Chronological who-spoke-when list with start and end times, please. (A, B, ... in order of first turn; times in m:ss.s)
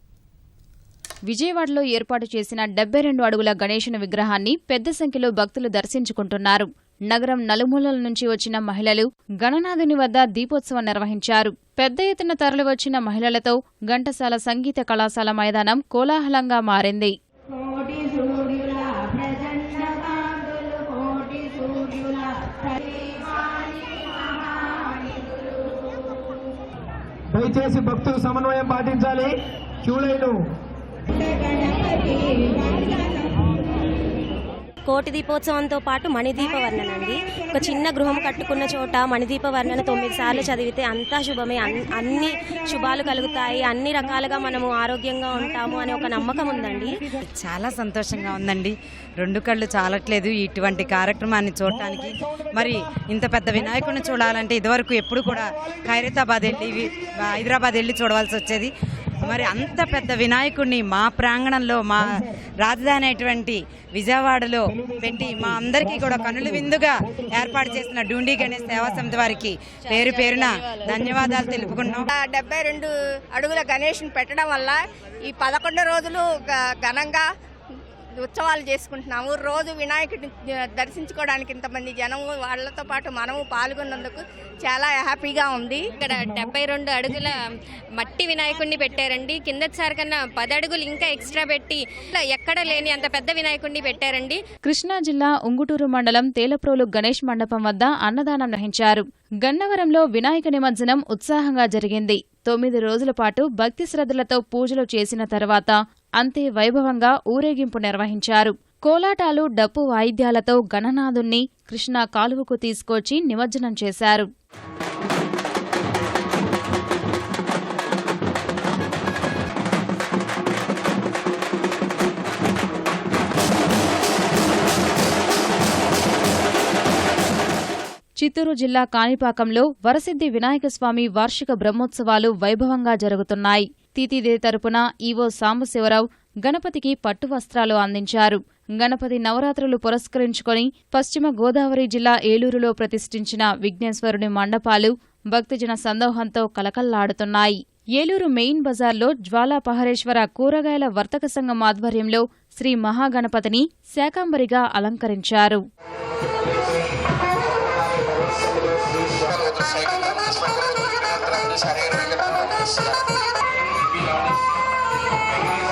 0:01.3-0:17.1 A
0:17.6-0:22.2 B
0:22.9-0:23.6 B
0:27.3-0:30.4 C
0:34.9-0:47.0 B
0:47.4-1:12.1 D
1:04.7-1:07.9 C
1:08.4-1:09.0 C
1:10.0-1:11.0 E
1:11.0-1:12.0 C
1:12.1-1:17.2 F
1:18.2-1:26.0 F
1:26.0-1:27.4 E
1:28.0-1:34.4 E
1:34.7-1:54.3 A
2:08.2-2:35.6 A